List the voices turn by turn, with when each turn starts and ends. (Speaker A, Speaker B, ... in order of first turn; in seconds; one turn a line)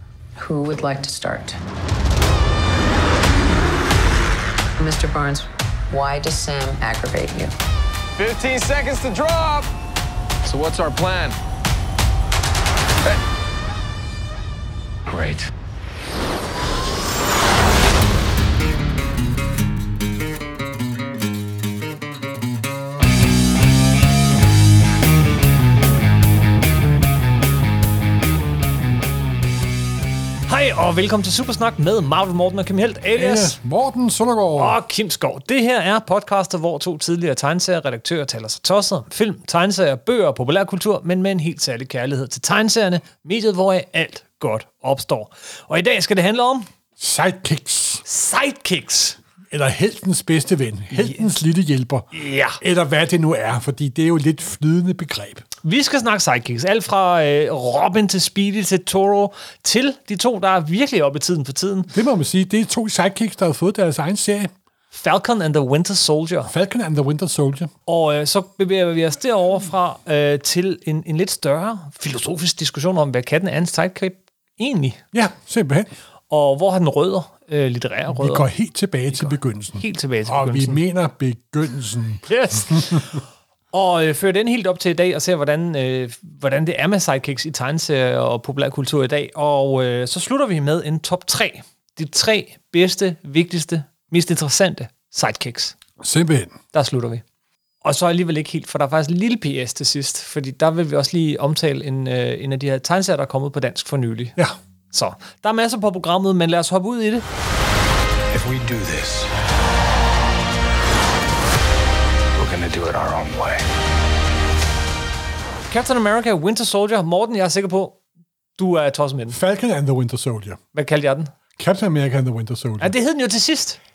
Speaker A: 0.4-1.6
Speaker A: 4.8-7.5
Speaker B: 8.2-9.7
Speaker B: 10.5-11.4
Speaker C: 15.1-15.5
Speaker D: 30.5-33.6
Speaker E: 33.2-34.8
Speaker D: 34.6-46.7
Speaker E: 47.0-48.0
Speaker D: 48.0-49.2
Speaker E: 49.5-52.1
Speaker D: 51.0-51.2
Speaker D: 52.1-52.6
Speaker E: 52.6-55.5
Speaker D: 55.6-61.9
Speaker E: 61.9-64.5
Speaker D: 64.9-66.5
Speaker E: 66.5-67.7
Speaker D: 67.9-75.0
Speaker E: 75.1-75.9
Speaker D: 76.3-78.5
Speaker E: 78.1-83.0
Speaker D: 79.8-80.8
Speaker D: 82.3-95.8
Speaker E: 96.0-96.6
Speaker D: 96.7-97.2
Speaker D: 97.8-104.4
Speaker D: 104.9-107.2
Speaker C: 108.3-109.3
Speaker C: 112.4-113.7
Speaker D: 115.7-118.0
Speaker D: 118.6-119.4
Speaker E: 119.3-120.6
Speaker D: 120.7-121.3
Speaker E: 121.6-122.9
Speaker D: 122.8-123.8